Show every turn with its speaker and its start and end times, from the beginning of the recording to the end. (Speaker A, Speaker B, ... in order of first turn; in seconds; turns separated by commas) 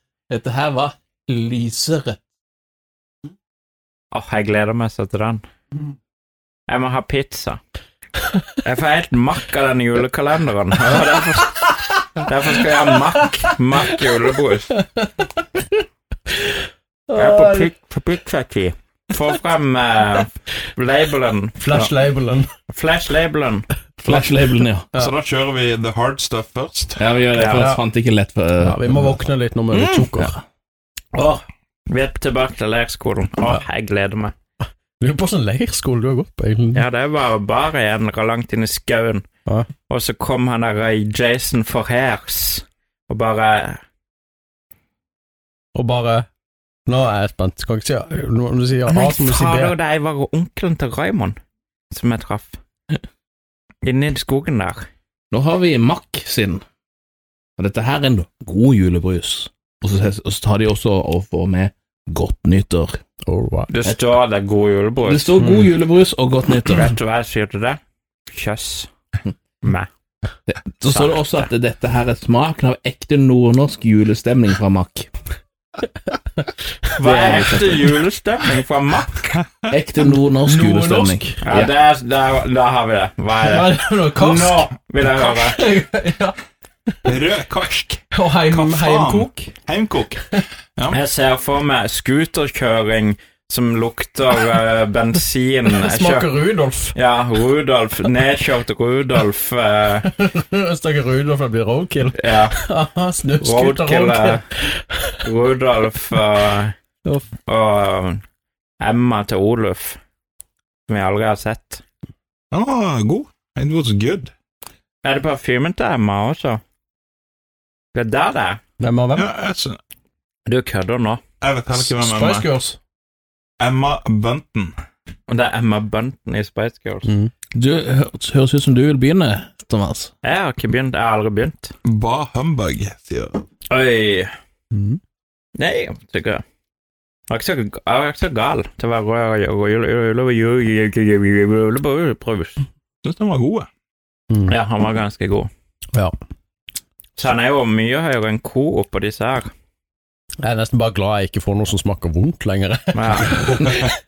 Speaker A: 0.3-2.2, Speaker B: 4.1-5.4, Speaker B: 6.7-7.6, Speaker B: 8.6-14.8, Speaker C: 14.9-15.3, Speaker C: 17.1-17.7, Speaker B: 17.1-21.9, Speaker C: 21.6-22.5, Speaker B: 22.7-23.7, Speaker A: 24.0-24.9, Speaker D: 24.9-27.2, Speaker A: 27.0-29.2, Speaker B: 27.3-27.7, Speaker C: 27.5-27.8, Speaker C: 28.6-30.4, Speaker B: 31.9-34.3, Speaker C: 35.0-36.8, Speaker B: 36.7-39.2, Speaker B: 39.9-43.8, Speaker C: 45.7-46.3, Speaker C: 46.9-49.8, Speaker B: 48.9-51.4, Speaker B: 51.9-52.6, Speaker B: 53.8-54.9, Speaker A: 55.3-56.6, Speaker A: 57.6-63.0, Speaker C: 63.2-63.7, Speaker B: 63.7-65.4, Speaker A: 65.0-66.9, Speaker C: 65.4-65.7, Speaker B: 66.6-68.9, Speaker B: 69.6-69.9, Speaker A: 70.5-75.1, Speaker B: 70.8-71.5, Speaker B: 77.0-79.3, Speaker A: 77.0-77.8, Speaker A: 79.7-81.7, Speaker C: 80.0-81.3, Speaker B: 81.4-85.6, Speaker C: 83.4-84.7, Speaker C: 85.2-86.3, Speaker D: 87.0-91.0, Speaker C: 88.1-89.5, Speaker B: 90.9-96.3, Speaker C: 95.7-96.9, Speaker B: 96.9-100.1, Speaker C: 100.0-105.2, Speaker B: 102.1-102.5, Speaker B: 103.4-104.4, Speaker B: 105.2-106.7, Speaker B: 107.5-108.2, Speaker B: 108.8-110.0, Speaker B: 110.9-111.8, Speaker D: 112.5-114.3, Speaker B: 115.0-116.6, Speaker B: 117.9-118.6, Speaker C: 118.8-119.3, Speaker D: 119.1-119.8, Speaker B: 120.5-121.2, Speaker D: 121.4-122.5, Speaker C: 121.7-122.8, Speaker D: 123.6-124.7, Speaker B: 125.3-127.1, Speaker C: 127.1-127.3, Speaker A: 127.5-130.1, Speaker B: 130.2-131.7, Speaker D: 131.8-133.4, Speaker B: 133.7-134.3, Speaker C: 134.7-135.0, Speaker B: 135.6-136.4, Speaker B: 137.3-142.6, Speaker D: 143.0-143.7, Speaker C: 144.3-144.5, Speaker B: 144.5-145.5, Speaker B: 147.2-149.5, Speaker C: 150.4-153.9, Speaker B: 152.9-153.5, Speaker D: 153.3-153.9